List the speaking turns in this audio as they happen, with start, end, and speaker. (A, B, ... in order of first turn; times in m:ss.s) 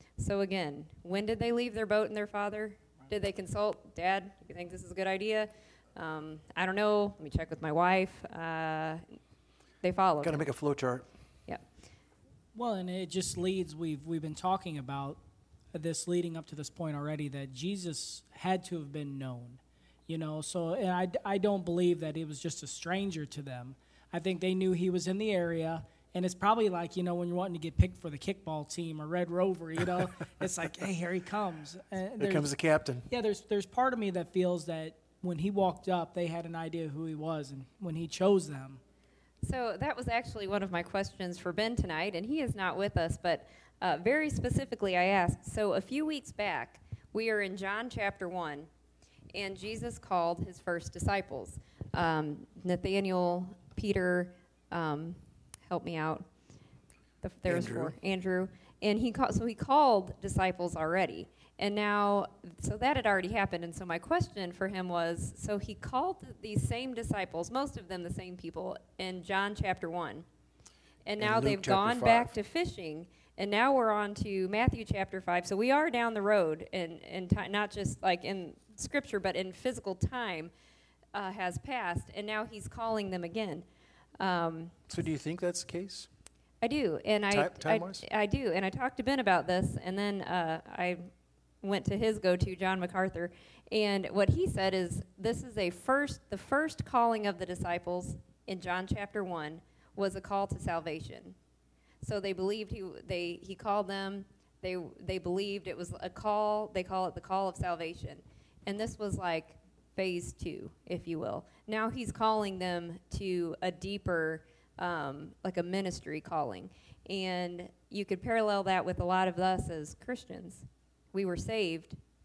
0:00.2-0:09.0 A
0:09.8-0:10.4 A
0:10.2-0:11.1 B
0:12.5-0:15.2 C
0:15.7-0:32.5 C
0:32.2-0:33.1 B
0:33.1-0:38.8 C
0:39.4-0:48.7 A
0:49.3-0:56.3 A
0:57.2-1:10.2 A
0:57.4-0:57.9 B
1:11.0-1:20.5 A
1:11.2-1:12.3 B
1:21.1-1:23.6 A
1:24.2-1:24.8 A
1:24.9-1:26.1 B
1:26.6-1:31.1 A
1:27.3-1:28.0 B
1:31.6-1:41.4 A
1:42.0-2:02.0 A